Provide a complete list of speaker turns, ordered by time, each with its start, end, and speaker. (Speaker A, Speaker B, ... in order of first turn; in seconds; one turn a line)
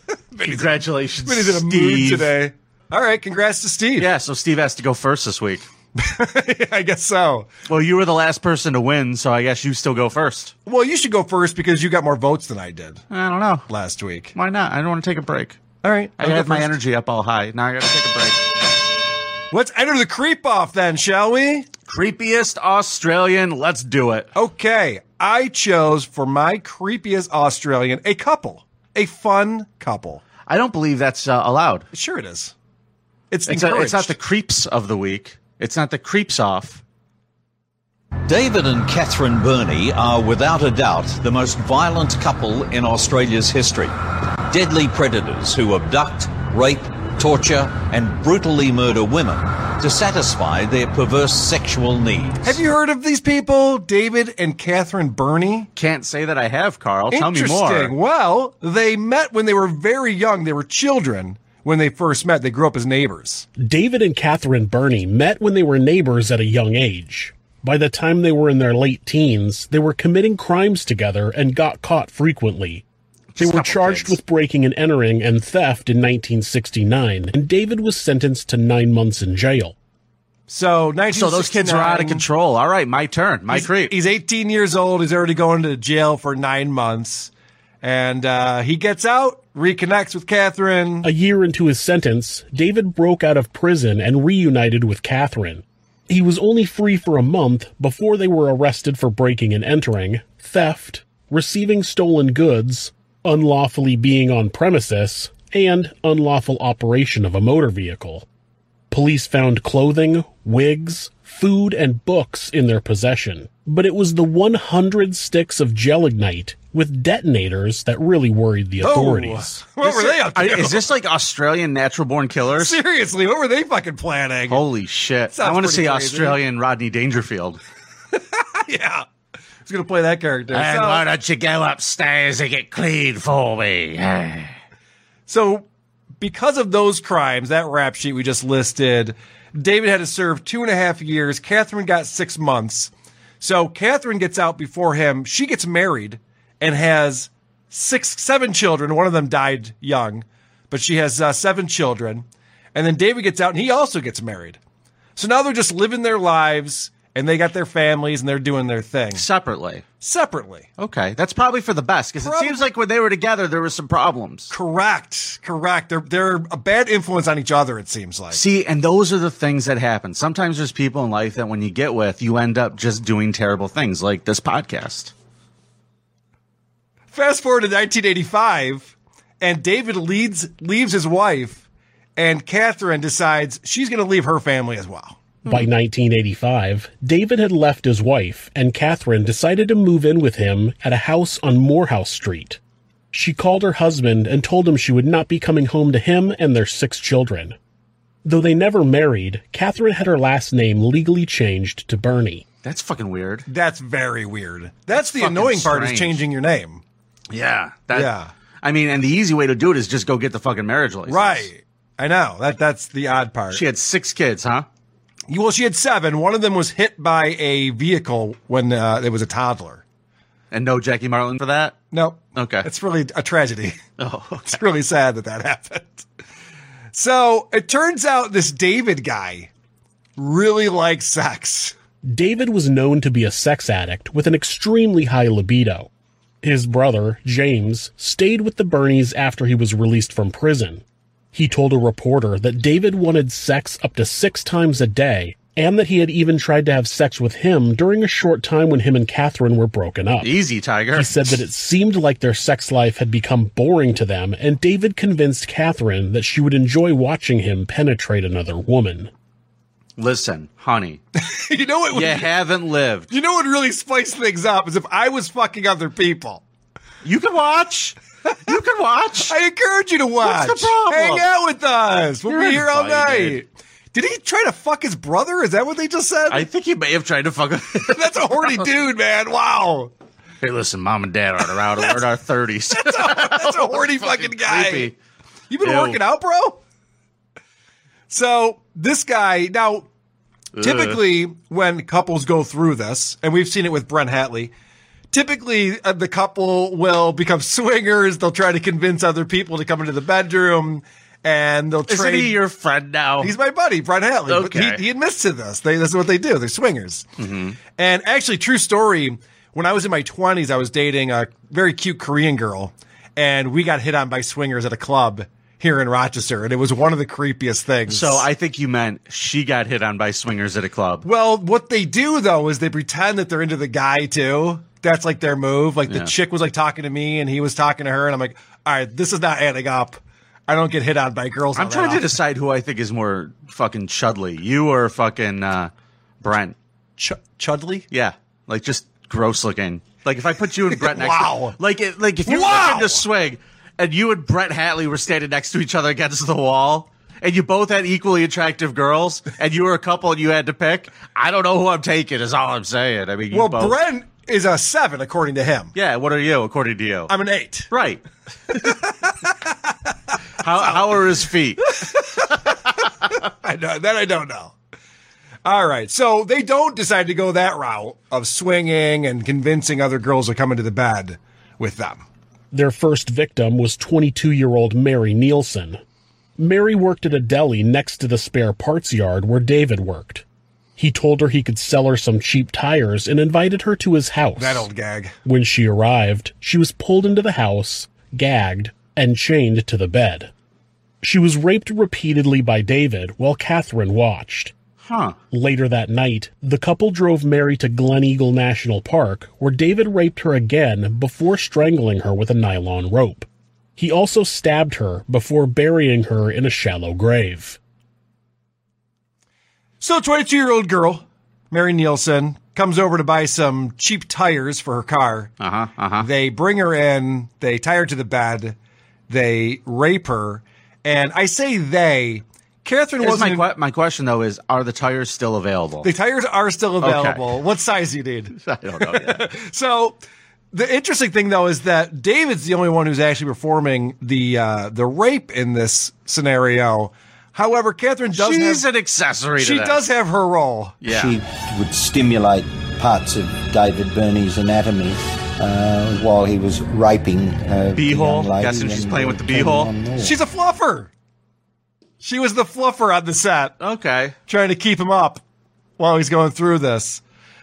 Speaker A: 0.3-0.7
Speaker B: 0.4-2.3
Speaker A: 1.2-4.1
Speaker B: 4.0-5.7
Speaker A: 5.9-7.5
Speaker B: 7.7-10.5
Speaker A: 10.7-13.0
Speaker B: 13.1-13.6
Speaker A: 13.7-14.3
Speaker B: 14.3-15.6
Speaker A: 15.8-16.7
Speaker B: 16.2-18.4
Speaker A: 19.5-21.7
Speaker B: 21.9-24.3
Speaker A: 24.3-30.2
Speaker B: 30.5-31.9
Speaker A: 31.9-32.5
Speaker A: 33.3-34.1
Speaker B: 33.5-36.8
Speaker C: 38.3-43.9
Speaker C: 44.5-52.6
Speaker A: 52.4-55.7
Speaker B: 55.8-57.9
Speaker A: 57.1-63.5
Speaker D: 63.6-72.8
Speaker B: 73.3-74.2
Speaker D: 73.4-79.7
Speaker A: 80.5-82.2
Speaker B: 81.1-83.9
Speaker A: 83.5-87.3
Speaker A: 87.8-91.1
Speaker D: 91.0-108.2
Speaker D: 108.9-119.6
Speaker A: 118.8-120.9
Speaker B: 119.8-122.8
Speaker A: 122.6-124.6
Speaker B: 124.5-127.6
Speaker A: 125.3-126.4
Speaker A: 128.2-129.1
Speaker A: 129.6-131.1
Speaker B: 130.5-134.5
Speaker A: 135.3-135.7
Speaker A: 136.2-154.6
Speaker A: 155.2-159.2
Speaker B: 159.1-159.8
Speaker A: 160.0-160.7
Speaker B: 160.8-164.5
Speaker A: 162.2-162.6
Speaker A: 164.5-168.4
Speaker B: 168.3-175.1
Speaker A: 177.1-181.6
Speaker A: 182.2-185.2
Speaker D: 185.4-192.6
Speaker D: 193.1-197.6
Speaker D: 198.2-202.4
Speaker B: 202.6-203.4
Speaker A: 203.5-206.8
Speaker B: 204.9-206.2
Speaker B: 207.3-211.5
Speaker A: 207.9-208.3
Speaker A: 211.1-213.6
Speaker B: 213.5-214.7
Speaker A: 215.3-219.8
Speaker B: 220.5-221.8
Speaker A: 221.9-223.8
Speaker B: 222.3-222.7
Speaker B: 224.0-224.6
Speaker A: 224.4-226.1
Speaker A: 226.9-229.5
Speaker A: 230.2-231.8
Speaker D: 232.0-235.9
Speaker D: 236.4-250.3
Speaker B: 250.2-251.3
Speaker D: 250.9-259.1
Speaker B: 260.0-261.0
Speaker A: 261.1-262.3
Speaker B: 261.9-263.1
Speaker A: 263.1-266.4
Speaker B: 267.0-269.3
Speaker A: 269.2-276.5
Speaker B: 270.2-271.2
Speaker B: 272.3-273.4
Speaker B: 276.3-278.5
Speaker A: 277.8-279.9
Speaker B: 280.4-284.9
Speaker A: 282.7-284.9
Speaker A: 285.5-286.6
Speaker B: 285.6-286.0
Speaker A: 288.1-289.9
Speaker B: 290.6-291.0
Speaker A: 290.6-294.5
Speaker A: 295.1-302.4
Speaker B: 301.9-303.3
Speaker A: 303.2-307.1
Speaker B: 304.3-304.8
Speaker B: 307.2-307.6
Speaker A: 307.8-318.2
Speaker B: 317.9-321.0
Speaker A: 321.0-332.1
Speaker B: 331.5-335.7
Speaker B: 336.2-336.6
Speaker A: 337.0-337.9
Speaker B: 337.9-353.8
Speaker A: 340.7-341.6
Speaker A: 342.2-343.0
Speaker A: 353.3-355.7
Speaker B: 355.7-357.1
Speaker A: 357.1-357.7
Speaker B: 357.7-358.0
Speaker A: 358.5-359.7
Speaker B: 360.4-361.9
Speaker A: 360.6-360.9
Speaker A: 361.7-362.5
Speaker A: 363.1-364.5
Speaker A: 365.4-372.0
Speaker D: 372.5-375.8
Speaker D: 376.4-380.2
Speaker D: 380.8-384.7
Speaker A: 384.4-385.1
Speaker D: 385.2-390.3
Speaker D: 391.0-394.5
Speaker B: 394.8-395.1
Speaker D: 395.3-407.6
Speaker A: 409.8-415.3
Speaker B: 415.4-416.1
Speaker A: 416.0-418.6
Speaker A: 419.1-423.4
Speaker B: 423.0-425.9
Speaker A: 425.8-430.0
Speaker B: 426.8-427.2
Speaker B: 428.4-429.2
Speaker A: 430.5-438.6
Speaker B: 438.1-439.8
Speaker A: 439.4-440.8
Speaker B: 440.8-441.1
Speaker E: 440.9-450.2
Speaker B: 447.7-449.7
Speaker A: 450.0-450.9
Speaker A: 452.0-453.5
Speaker B: 453.6-454.1
Speaker A: 454.3-455.2
Speaker A: 455.8-457.0